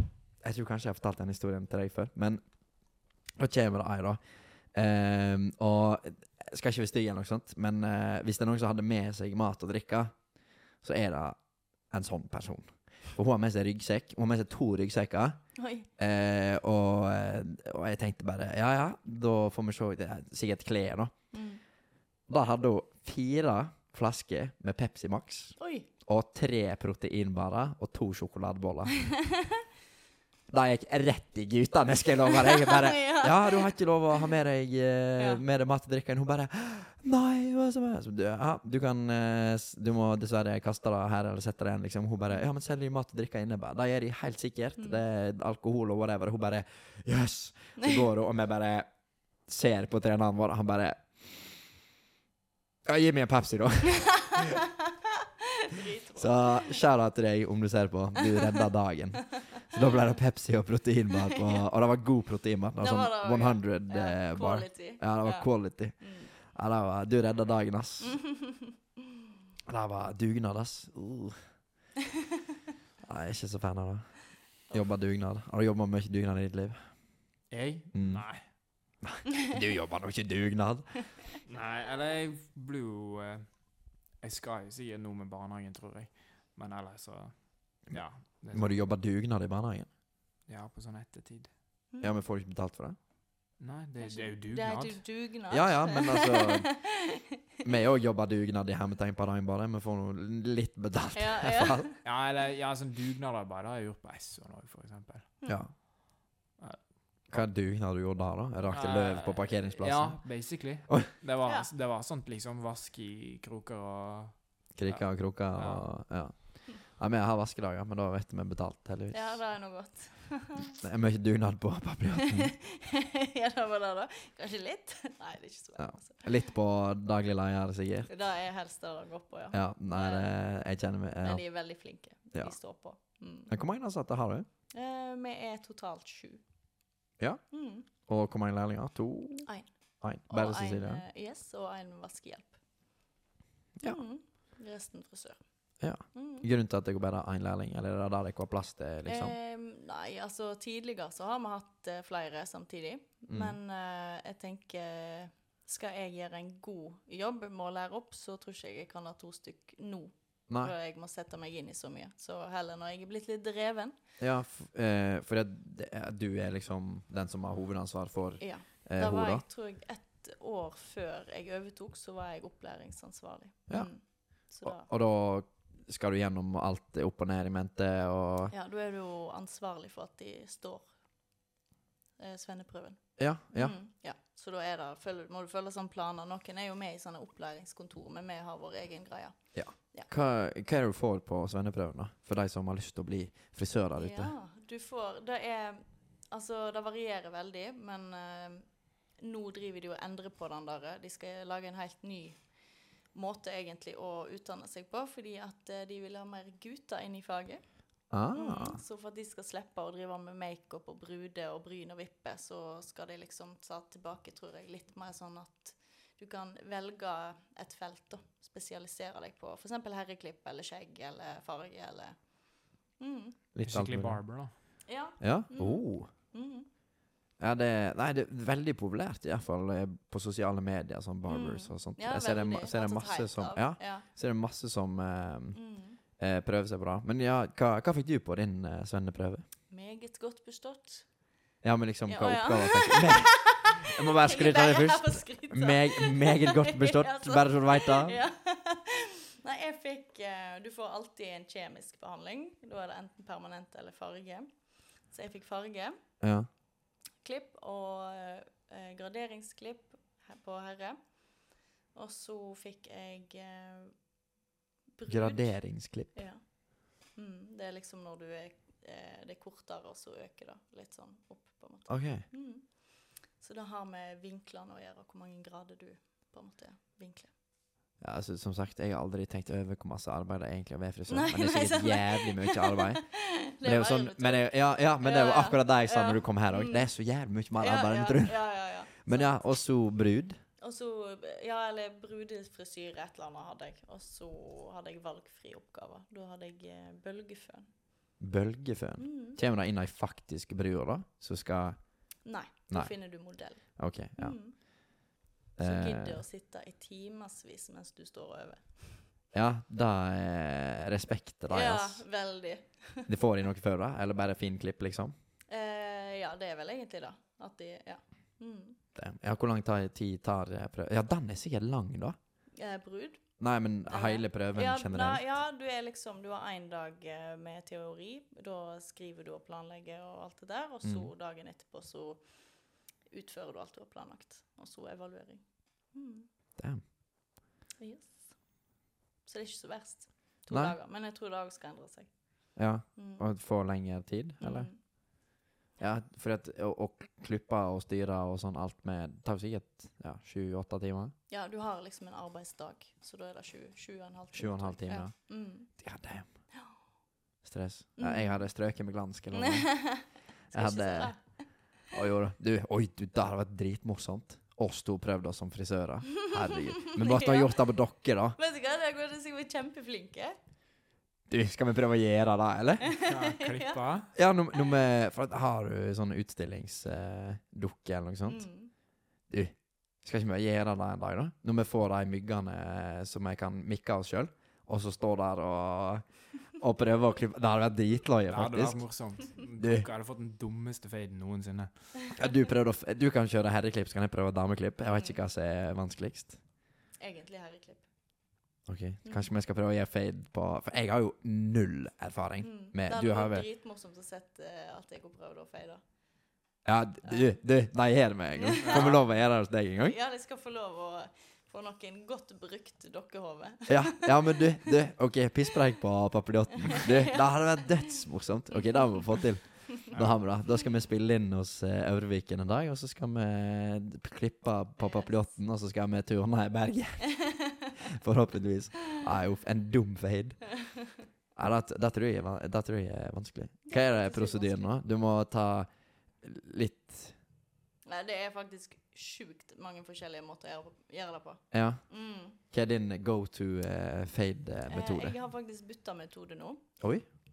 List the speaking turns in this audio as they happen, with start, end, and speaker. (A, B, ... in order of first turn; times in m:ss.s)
0:00.4-0:02.4 A
0:03.4-0:04.2 A
0:04.7-0:10.1 A
0:10.8-0:11.4 A
0:11.9-0:15.4 A
0:15.6-0:15.9 B
0:16.0-0:21.1 A
0:21.3-0:21.6 B
0:22.3-0:28.9 A
0:25.6-0:25.9 B
0:29.1-0:29.6 B
0:30.5-0:48.9 A
0:32.3-0:34.3 B
0:47.8-0:48.0 B
0:49.5-0:51.6 A
0:52.8-0:54.6 A
0:54.2-0:54.7 B
0:55.6-0:56.8 B
0:56.2-1:08.2 A
1:01.3-1:01.6 B
1:02.8-1:06.3 B
1:08.0-1:08.8 B
1:09.7-1:11.4 A
1:13.0-1:16.9 A
1:17.5-1:18.4 C
1:17.9-1:18.2 A
1:19.0-1:21.1 A
1:21.4-1:23.5 C
1:24.2-1:28.8 C
1:28.5-1:29.9 A
1:30.5-1:31.5 C
1:32.0-1:33.0 A
1:33.6-1:35.0 C
1:34.0-1:37.6 B
1:35.5-1:36.7 A
1:37.6-1:41.9 A
1:41.1-1:42.0 B
1:42.0-1:45.3 C
1:45.4-1:45.7 A
1:47.3-1:50.3 A
1:48.7-1:55.9 C
1:51.4-1:51.7 B
1:54.8-1:59.4 A
1:59.1-2:00.8 B
2:00.8-2:02.5 A
2:02.2-2:06.3 B
2:05.8-2:08.1 A
2:08.1-2:10.3 B
2:09.5-2:11.4 A
2:11.2-2:13.5 B
2:13.5-2:14.5 A
2:14.7-2:16.4 B
2:17.5-2:17.9 B
2:18.0-2:19.5 A
2:20.0-2:21.0 A
2:20.3-2:22.5 B
2:23.8-2:25.4 B
2:25.8-2:29.3 A
2:26.1-2:26.5 B
2:29.0-2:44.0 B
2:33.3-2:33.6 A
2:40.5-2:40.7 A
2:44.2-2:49.4 A
2:48.4-2:54.9 B
2:54.6-2:58.5 A
2:58.5-3:00.9 B
3:02.2-3:10.1 B
3:03.2-3:03.8 A
3:09.5-3:14.3 A
3:14.0-3:18.6 B
3:19.2-3:22.4 B
3:23.1-3:27.6 B
3:28.1-3:28.8 A
3:28.3-3:42.2 B
3:43.0-3:43.4 B
3:43.5-3:44.2 A
3:43.6-3:44.5 C
3:44.8-3:46.7 B
3:45.2-3:46.1 A
3:47.4-3:55.6 A
3:51.3-3:54.0 B
3:55.5-3:56.0 B
3:56.2-3:59.4 A
3:59.7-4:01.0 B
4:01.6-4:08.2 A
4:02.1-4:14.5 B
4:15.1-4:16.0 B
4:16.2-4:16.5 A
4:17.2-4:21.0 B
4:21.9-4:23.9 B
4:25.0-4:25.6 B
4:25.1-4:26.2 A
4:26.1-4:26.4 B
4:27.1-4:37.3 B
4:31.9-4:32.2 A
4:38.0-4:43.0 A
4:41.1-4:46.9 B
4:43.6-4:48.4 A
4:47.6-4:49.4 B
4:49.0-4:50.4 A
4:50.6-4:57.7 B
4:58.2-5:01.8 A
4:59.0-4:59.4 B
5:02.2-5:04.6 B
5:03.8-5:04.4 A
5:05.6-5:06.2 A
5:05.6-5:09.0 B
5:09.3-5:12.0 A
5:11.5-5:13.1 B
5:13.1-5:15.1 A
5:15.5-5:18.8 B
5:18.9-5:22.2 A
5:22.6-5:23.2 B
5:23.4-5:25.2 A
5:23.9-5:32.2 B
5:30.8-5:31.1 A
5:33.1-5:36.3 B
5:37.8-5:38.2 B
5:39.2-5:42.1 B
5:40.5-5:40.7 A
5:42.6-5:44.7 A
5:43.0-5:43.2 B
5:44.4-5:44.8 B
5:45.8-5:51.1 A
5:51.3-5:55.7 B
5:54.3-5:55.1 A
5:55.8-5:56.3 A
5:57.4-5:59.7 A
5:58.0-5:58.4 B
5:59.3-6:01.2 B
6:00.5-6:01.2 A
6:01.9-6:08.4 A
6:06.2-6:07.7 B
6:08.4-6:10.4 B
6:11.3-6:12.9 A
6:12.8-6:13.8 B
6:13.0-6:14.1 C
6:14.1-6:18.4 A
6:18.3-6:18.7 B
6:19.3-6:28.8 A
6:28.3-6:31.7 C
6:29.6-6:29.9 A
6:32.1-6:36.4 A
6:37.0-6:37.8 B
6:38.7-6:43.4 A
6:42.4-6:45.8 B
6:46.6-6:50.0 A
6:47.1-6:47.3 B
6:48.4-6:48.9 B
6:48.6-6:49.0 C
6:49.8-6:54.7 B
6:53.7-7:07.2 A
6:56.6-6:57.8 B
6:58.5-6:59.2 B
6:59.9-7:00.2 C
7:04.8-7:05.2 B
7:07.1-7:07.7 B
7:07.8-7:10.5 A
7:11.4-7:15.7 A
7:13.7-7:14.7 B
7:16.2-7:17.2 A
7:17.8-7:22.4 B
7:21.5-7:21.8 A
7:22.5-7:25.2 A
7:24.7-7:26.6 B
7:26.8-7:27.0 A